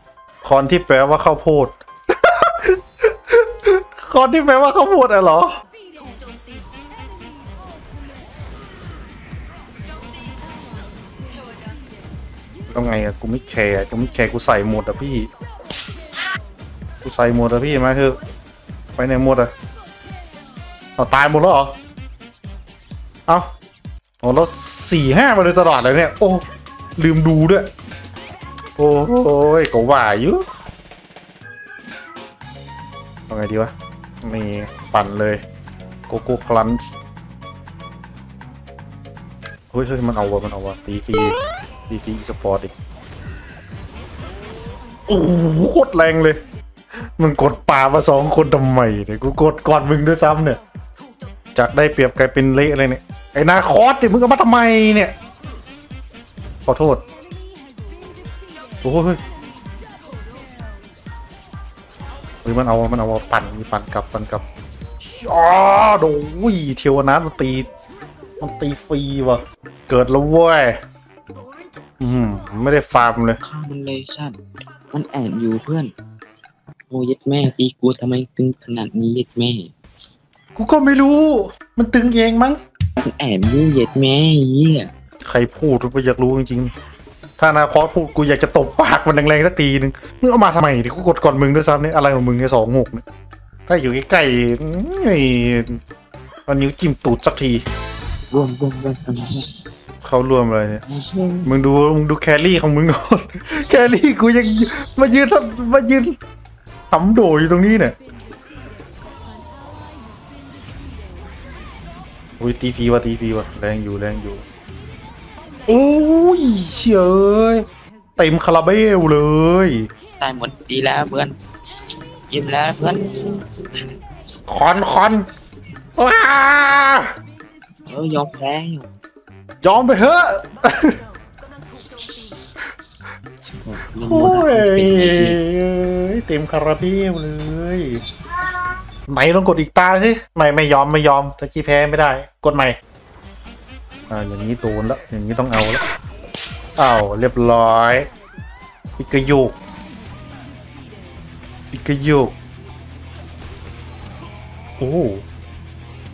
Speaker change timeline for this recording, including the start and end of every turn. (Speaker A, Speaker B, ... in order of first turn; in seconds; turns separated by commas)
Speaker A: 0.4-5.6, Speaker A: 12.7-15.3, Speaker A: 17.0-18.2, Speaker A: 18.9-19.5, Speaker A: 21.0-21.8, Speaker A: 24.2-26.4, Speaker A: 27.0-27.7, Speaker A: 28.8-30.4, Speaker A: 33.3-35.4, Speaker A: 36.1-36.8, Speaker A: 39.7-41.4, Speaker A: 41.9-42.7, Speaker A: 45.1-46.4, Speaker A: 47.2-50.6, Speaker A: 51.5-55.1, Speaker A: 56.6-57.0, Speaker A: 58.8-59.2, Speaker A: 62.4-64.4, Speaker A: 65.1-67.7, Speaker A: 68.4-70.8, Speaker A: 72.0-73.4, Speaker B: 73.4-74.4, Speaker B: 74.9-75.9, Speaker B: 76.9-79.7, Speaker A: 80.5-82.6, Speaker B: 83.0-84.9, Speaker A: 85.2-86.7, Speaker A: 87.4-93.0, Speaker A: 93.7-95.8, Speaker A: 96.5-97.6, Speaker B: 98.3-99.5, Speaker A: 100.0-100.8, Speaker B: 100.9-101.5, Speaker A: 101.4-106.2, Speaker A: 106.9-108.0, Speaker A: 112.4-114.4, Speaker A: 115.7-117.7, Speaker A: 118.2-119.9, Speaker B: 120.2-121.4, Speaker B: 122.3-124.0, Speaker A: 124.5-125.2, Speaker A: 126.0-127.1, Speaker B: 127.8-128.9, Speaker A: 129.6-130.9, Speaker B: 133.4-135.4, Speaker A: 134.0-138.0, Speaker A: 139.1-142.8, Speaker A: 144.1-145.8, Speaker A: 146.8-148.1, Speaker A: 149.0-149.6, Speaker A: 151.7-152.3, Speaker A: 154.8-155.2